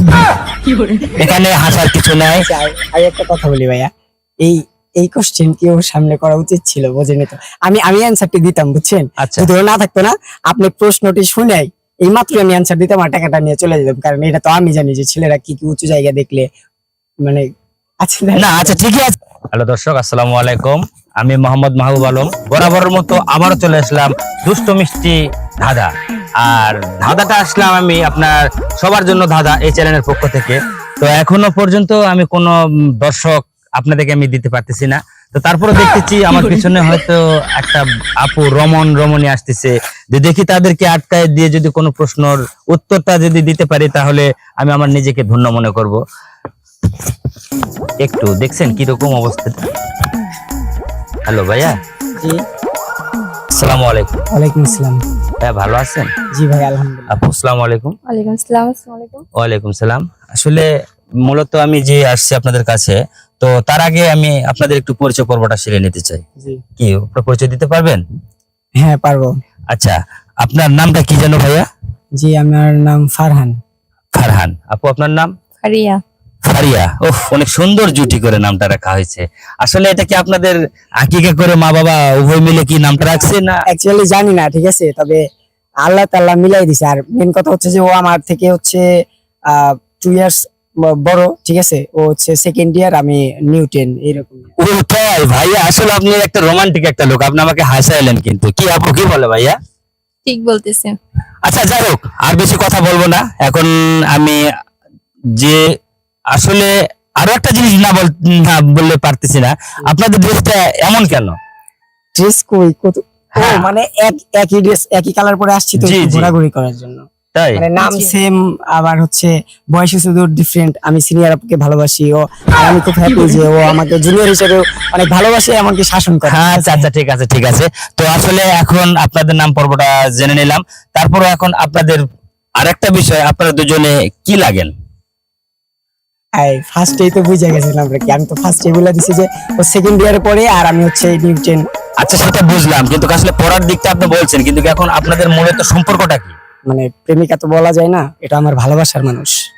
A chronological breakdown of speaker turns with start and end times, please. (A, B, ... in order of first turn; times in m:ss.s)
0:01.2-0:02.4 A
0:02.4-0:03.9 B
0:04.4-0:16.5 B
0:09.2-0:09.5 A
0:18.0-0:18.8 B
0:18.4-0:46.0 A
0:48.0-0:49.6 A
0:51.3-0:51.8 A
0:53.5-0:54.2 A
0:54.3-0:55.0 B
0:55.4-0:56.1 A
0:56.3-0:57.1 B
0:57.1-0:58.0 A
0:58.1-0:59.2 C
0:59.4-1:00.7 A
1:01.2-1:06.2 A
1:06.8-1:08.0 A
1:08.8-1:09.3 B
1:09.7-1:11.7 A
1:12.2-1:13.6 B
1:14.2-1:15.3 A
1:15.6-1:16.0 C
1:16.4-1:23.6 A
1:23.0-1:25.2 B
1:25.8-1:28.8 B
1:29.5-1:34.5 B
1:34.6-1:39.6 A
1:40.3-1:41.0 C
1:41.4-1:44.4 A
1:46.3-1:51.4 A
1:52.2-2:06.9 B
1:53.4-1:53.7 A
1:55.8-1:56.3 A
1:57.3-1:57.6 A
1:57.8-1:58.1 C
2:06.3-2:12.0 A
2:12.6-2:14.7 A
2:16.4-2:21.6 B
2:22.0-2:26.4 A
2:26.7-2:29.4 B